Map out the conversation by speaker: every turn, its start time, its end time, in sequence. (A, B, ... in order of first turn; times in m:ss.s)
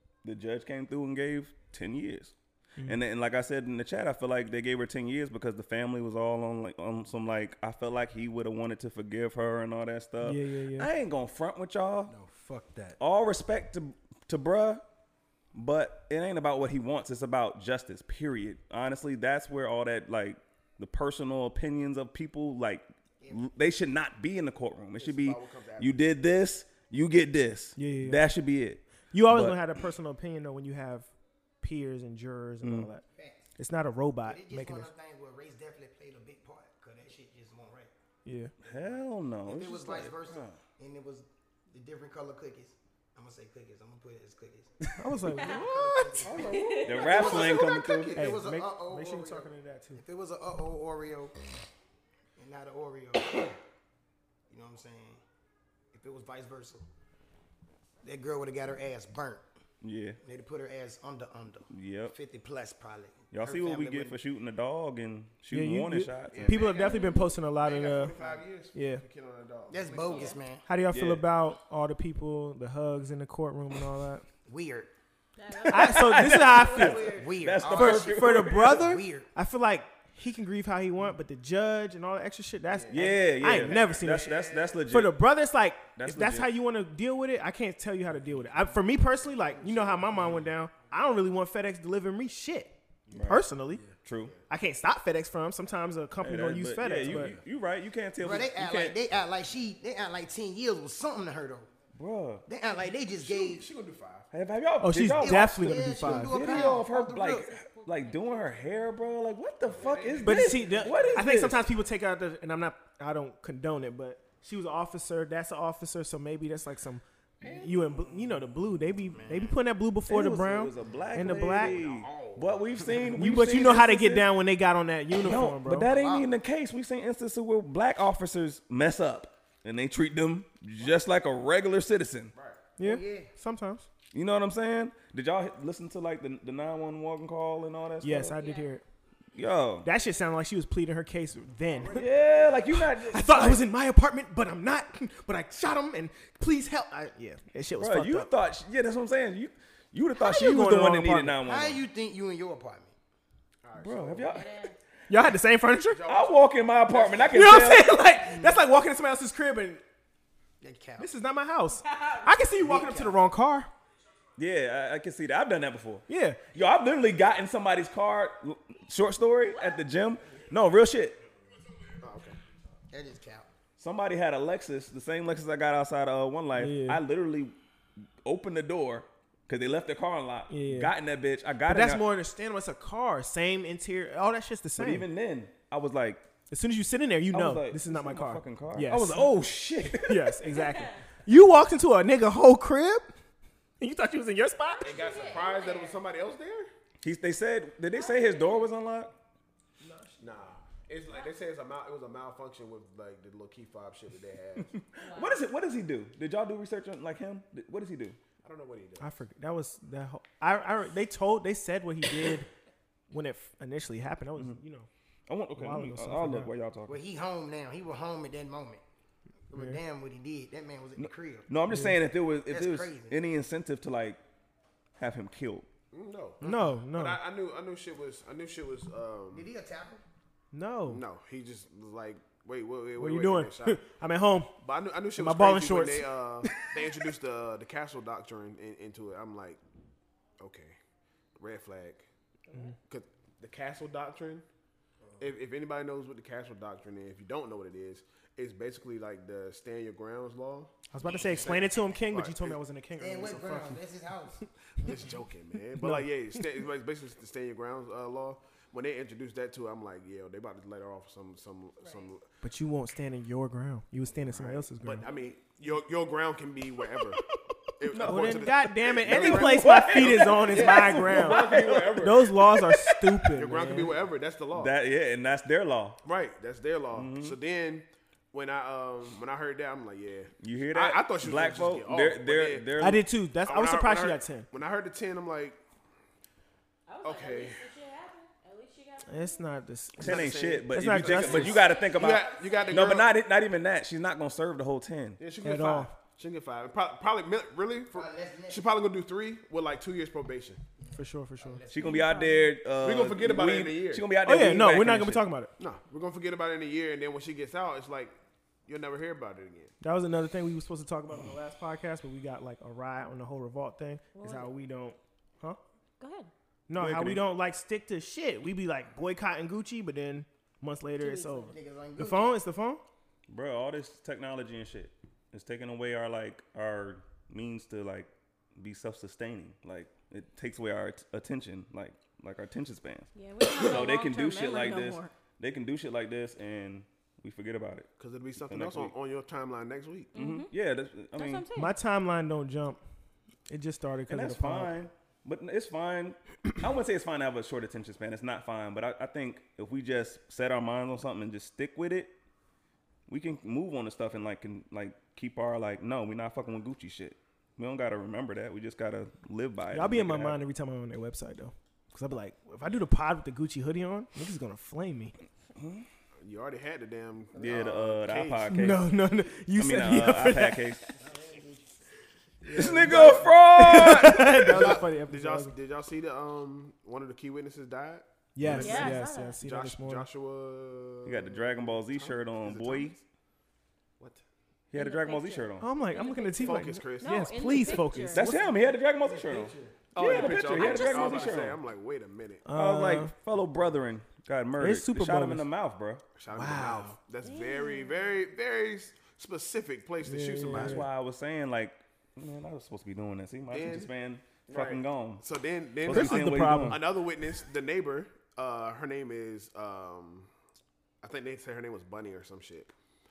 0:00.2-0:02.3 A
0:02.8-0:12.1 A
0:10.2-0:10.9 B
0:12.1-0:13.0 C
0:13.0-0:14.8 A
0:15.5-0:29.6 A
0:25.0-0:26.1 D
0:27.8-0:28.2 B
0:29.1-0:31.1 B
0:31.6-0:33.0 B
0:32.6-0:32.9 A
0:33.1-0:33.5 E
0:33.6-0:34.9 B
0:34.2-0:37.9 E
0:38.2-0:38.5 B
0:38.6-0:40.6 A
0:39.4-0:44.7 E
0:45.0-0:46.2 B
0:45.3-0:51.3 E
0:46.2-0:48.2 D
0:46.5-0:47.1 F
0:46.8-0:48.3 A
0:48.1-0:50.0 B
0:52.4-0:53.6 E
0:54.5-0:55.2 E
0:55.9-0:56.9 E
0:58.0-0:59.4 E
0:59.8-1:00.2 A
1:00.2-1:04.2 E
1:01.7-1:02.1 A
1:03.3-1:06.6 A
1:05.5-1:08.1 B
1:06.2-1:10.4 D
1:06.6-1:07.3 F
1:08.1-1:08.4 E
1:08.7-1:09.0 B
1:09.7-1:10.6 E
1:10.0-1:10.4 F
1:10.6-1:14.2 B
1:10.9-1:11.2 A
1:14.4-1:14.9 E
1:15.4-1:17.3 F
1:15.6-1:18.9 A
1:15.7-1:17.1 B
1:16.7-1:19.3 E
1:17.7-1:24.3 B
1:22.7-1:24.8 D
1:22.9-1:25.2 A
1:24.9-1:32.7 B
1:26.0-1:26.5 A
1:29.3-1:30.5 D
1:33.1-1:33.4 D
1:33.1-1:33.5 A
1:33.2-1:33.8 B
1:33.7-1:33.9 C
1:34.0-1:34.3 A
1:34.5-1:37.4 B
1:36.2-1:39.0 A
1:37.1-1:37.4 C
1:38.2-1:41.7 E
1:41.9-1:42.4 A
1:42.5-1:43.7 E
1:43.1-1:44.3 D
1:44.3-1:51.6 A
1:44.8-1:46.4 B
1:45.2-1:47.6 E
1:47.6-1:49.0 F
1:49.6-1:51.2 D
1:50.2-2:01.8 B
1:57.4-1:58.2 D
1:59.2-1:59.5 E
2:00.1-2:04.3 A
2:01.3-2:03.0 D
2:03.1-2:05.9 B
2:05.2-2:12.3 A
2:05.8-2:06.3 E
2:12.3-2:12.6 D
2:12.8-2:13.8 B
2:12.8-2:13.3 E
2:14.1-2:18.4 A
2:18.0-2:18.8 B
2:18.4-2:18.7 F
2:19.3-2:19.9 A
2:19.8-2:28.3 B
2:21.8-2:22.5 C
2:21.9-2:23.6 A
2:27.8-2:31.8 A
2:30.2-2:31.4 B
2:31.4-2:32.9 E
2:33.6-2:34.4 D
2:33.8-2:34.5 A
2:34.3-2:34.8 F
2:35.1-2:36.0 B
2:35.9-2:37.6 D
2:36.0-2:38.0 A
2:37.3-2:39.8 B
2:38.2-2:38.6 E
2:40.6-2:41.1 E
2:41.0-2:43.7 B
2:41.8-2:42.3 F
2:42.6-2:43.2 E
2:44.4-2:51.2 A
2:46.1-2:46.4 B
2:49.5-2:49.8 F
2:52.0-2:52.4 D
2:52.9-2:53.5 E
2:53.8-2:57.5 A
2:56.5-2:57.0 B
2:58.2-3:02.0 A
3:00.5-3:00.9 B
3:01.6-3:05.1 B
3:04.8-3:06.2 A
3:06.5-3:13.1 B
3:07.3-3:10.4 A
3:10.5-3:11.0 F
3:13.8-3:15.0 B
3:14.8-3:16.0 F
3:14.8-3:16.7 D
3:17.0-3:19.1 A
3:17.9-3:18.7 F
3:19.8-3:20.6 C
3:20.2-3:24.8 D
3:24.6-3:28.2 A
3:25.0-3:25.4 F
3:28.4-3:29.2 D
3:29.0-3:32.5 B
3:33.1-3:34.9 B
3:35.3-3:37.0 A
3:35.6-3:36.5 B
3:36.9-3:38.8 E
3:39.5-3:41.5 E
3:41.0-3:44.2 A
3:41.7-3:42.0 B
3:42.4-3:43.2 E
3:45.0-3:45.7 A
3:45.9-3:49.5 D
3:46.4-3:47.2 B
3:49.3-3:50.0 E
3:50.5-3:51.0 B
3:50.9-3:53.8 D
3:53.0-3:54.5 B
3:54.6-3:59.6 D
3:55.2-3:56.8 B
4:00.4-4:00.8 D
4:01.4-4:02.1 D
4:02.9-4:04.4 D
4:05.2-4:12.6 D
4:10.9-4:13.8 B
4:13.0-4:14.4 E
4:14.8-4:22.2 D
4:15.8-4:16.1 B
4:22.4-4:25.0 B
4:24.2-4:27.2 D
4:27.8-4:32.2 D
4:27.9-4:33.3 A
4:28.0-4:33.9 B
4:33.3-4:34.7 D
4:34.5-4:36.0 A
4:36.0-4:42.7 D
4:36.9-4:37.4 A
4:40.4-4:43.0 A
4:42.8-4:44.5 B
4:43.4-4:45.6 D
4:46.9-4:49.5 F
4:47.0-4:47.6 D
4:49.1-4:51.6 B
4:50.0-4:55.2 A
4:50.0-4:53.1 D
4:51.4-4:53.0 F
4:55.2-5:00.6 D
4:55.4-4:55.9 B
4:57.9-4:58.6 E
5:00.8-5:02.1 E
5:00.9-5:01.6 B
5:01.7-5:05.2 A
5:01.8-5:02.6 F
5:02.7-5:04.1 D
5:04.2-5:05.5 B
5:05.6-5:08.1 D
5:08.6-5:09.7 D
5:09.8-5:15.6 B
5:14.1-5:14.5 F
5:16.0-5:16.3 F
5:16.7-5:22.8 B
5:16.8-5:17.3 A
5:21.0-5:21.5 F
5:21.4-5:22.4 E
5:23.3-5:37.9 A
5:33.1-5:35.1 F
5:38.0-5:40.1 D
5:38.4-5:38.9 A
5:40.1-5:40.5 F
5:40.1-5:41.5 A
5:41.1-5:41.7 F
5:41.6-5:42.8 B
5:43.5-5:44.8 B
5:44.1-5:52.1 A
5:53.1-6:00.4 A
5:59.7-6:05.1 B
6:05.6-6:05.8 A
6:06.2-6:08.6 D
6:07.4-6:08.8 A
6:08.5-6:10.8 B
6:09.5-6:10.8 A
6:11.0-6:11.8 E
6:12.4-6:15.5 B
6:12.5-6:14.6 A
6:12.8-6:13.2 D
6:14.2-6:23.0 D
6:18.3-6:20.0 B
6:18.5-6:19.4 F
6:21.0-6:23.0 A
6:24.7-6:25.7 A
6:24.7-6:28.3 F
6:25.6-6:28.4 B
6:26.4-6:28.0 D
6:28.1-6:31.6 A
6:29.0-6:29.9 C
6:29.9-6:32.5 D
6:30.0-6:31.4 F
6:32.4-6:33.1 B
6:32.5-6:36.0 A
6:34.6-6:35.5 B
6:36.1-6:40.9 D
6:36.3-6:36.9 B
6:37.2-6:38.2 F
6:40.0-6:40.9 B
6:40.5-6:45.2 A
6:43.5-6:43.9 D
6:44.4-6:50.3 D
6:45.8-6:46.9 A
6:45.9-6:46.8 B
6:51.0-6:52.7 D